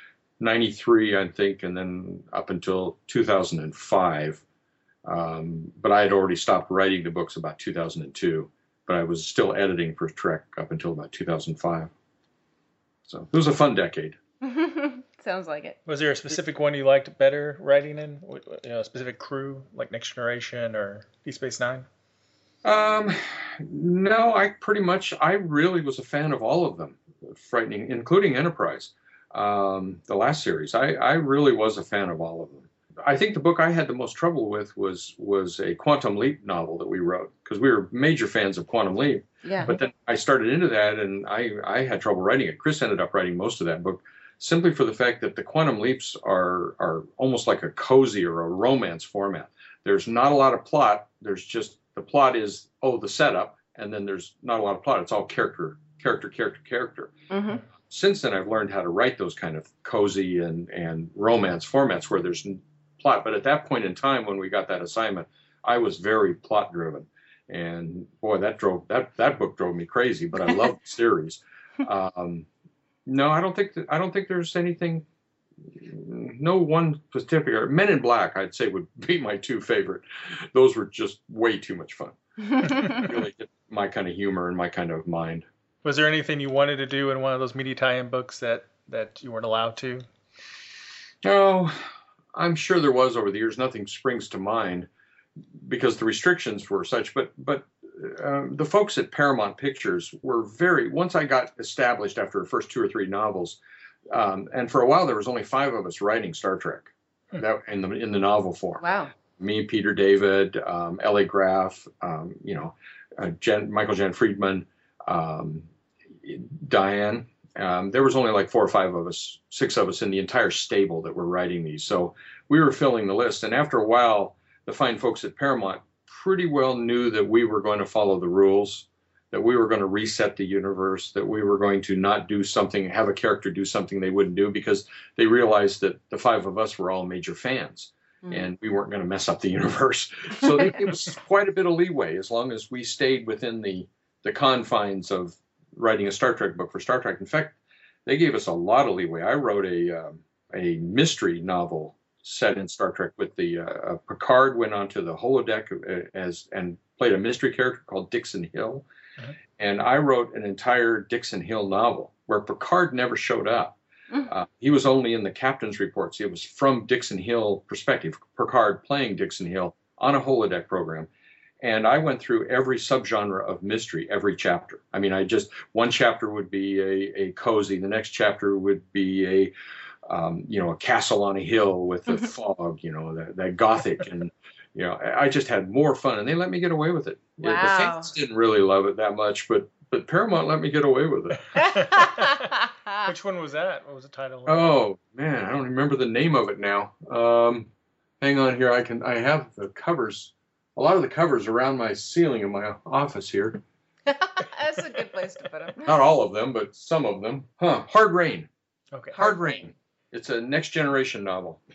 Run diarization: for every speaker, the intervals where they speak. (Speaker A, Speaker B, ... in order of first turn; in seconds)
Speaker A: 0.4-4.4, 5.0-11.9, 13.1-14.2, 22.6-57.1, 57.7-72.5, 73.0-75.0, 75.6-82.2, 82.7-85.5, 91.2-91.7, 92.3-94.9, 95.6-115.7, 116.2-158.8, 159.6-163.8, 164.3-171.1, 171.6-179.5, 180.1-191.5, 194.4-197.7, 198.2-203.6, 205.8-208.5, 209.2-211.6
Speaker B: 14.4-15.8, 39.4-39.7, 57.3-57.6, 82.4-83.0, 108.8-109.1, 187.4-188.1, 191.6-193.1, 204.1-205.9, 209.1-209.7
Speaker C: 15.8-21.9, 85.8-90.0, 192.0-192.3, 193.0-194.7